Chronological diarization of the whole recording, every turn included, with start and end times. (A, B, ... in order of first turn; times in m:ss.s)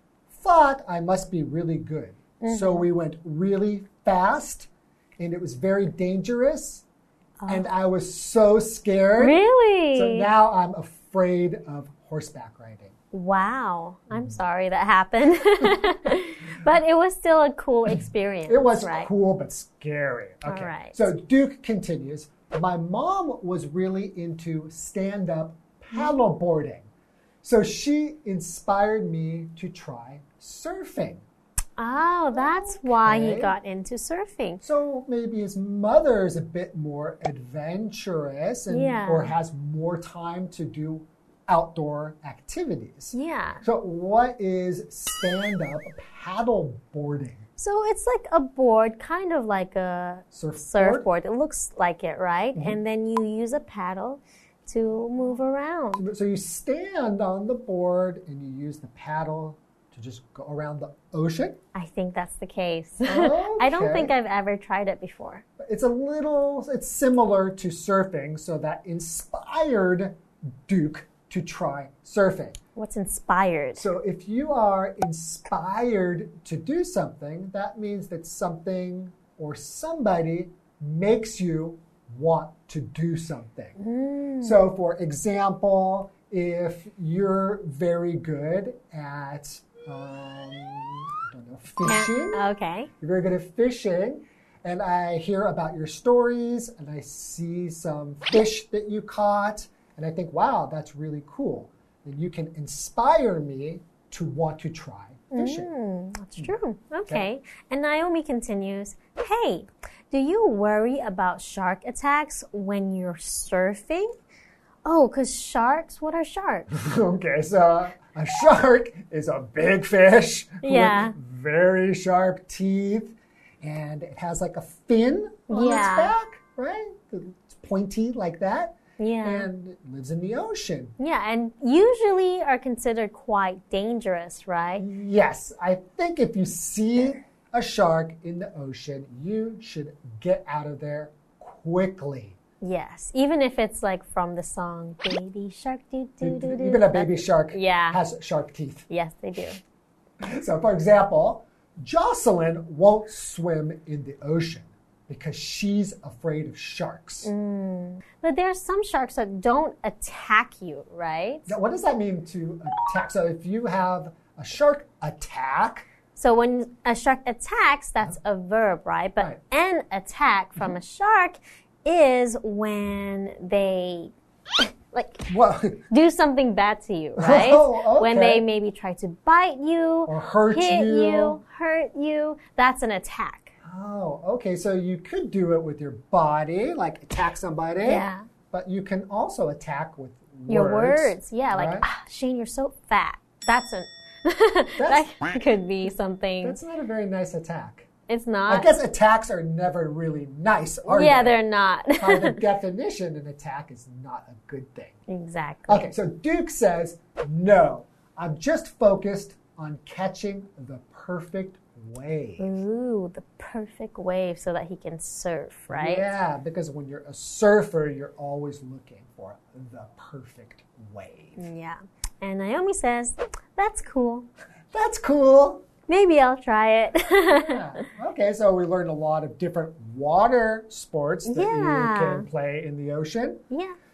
0:00.3-0:06.8 A
0:02.4-0:02.9 B
0:07.4-0:07.7 B
0:07.5-0:09.4 A
0:09.2-0:10.3 B
0:09.9-0:13.0 A
0:13.1-0:19.1 B
0:14.1-0:14.4 A
0:17.9-0:26.9 A
0:20.4-0:21.1 B
0:25.9-0:26.2 B
0:27.4-0:31.2 A
0:31.8-0:34.6 B
0:32.3-0:33.5 A
0:34.6-0:47.4 A
0:38.7-0:39.3 B
0:43.1-0:43.6 B
0:47.6-0:56.1 B
0:50.3-0:51.1 A
0:52.5-0:52.8 A
0:56.0-1:01.6 A
1:01.8-1:05.4 B
1:03.0-1:04.1 A
1:05.6-1:12.6 A
1:12.8-1:13.9 B
1:13.8-1:23.8 A
1:23.8-1:24.6 B
1:24.4-1:32.5 A
1:31.9-1:32.9 B
1:33.0-1:45.7 A
1:45.3-1:54.1 B
1:54.8-1:56.7 B
1:56.7-2:10.9 A
2:00.6-2:01.2 B
2:05.5-2:06.1 B
2:09.0-2:09.5 B
2:11.0-2:14.8 B
2:14.8-2:22.4 A
2:22.6-2:28.0 B
2:26.2-2:28.9 A
2:28.9-2:29.6 B
2:30.2-2:37.3 A
2:37.2-2:41.5 B
2:41.5-2:45.9 A
2:46.2-2:55.3 B
2:55.3-2:55.9 A
2:55.9-3:03.6 B
2:57.2-2:58.4 A
3:00.1-3:01.4 A
3:03.6-3:11.9 A
3:07.8-3:08.2 B
3:10.5-3:16.6 B
3:14.8-3:15.1 A
3:16.4-3:17.9 A
3:18.1-3:18.7 B
3:18.5-3:21.4 A
3:20.9-3:22.4 B
3:22.0-3:25.0 A
3:25.1-3:25.9 B
3:25.7-3:32.6 A
3:32.4-3:36.1 B
3:35.7-3:41.5 A
3:41.4-3:44.3 B
3:44.7-3:45.6 A
3:45.9-3:47.8 B
3:47.2-3:53.4 A
3:51.2-3:52.3 B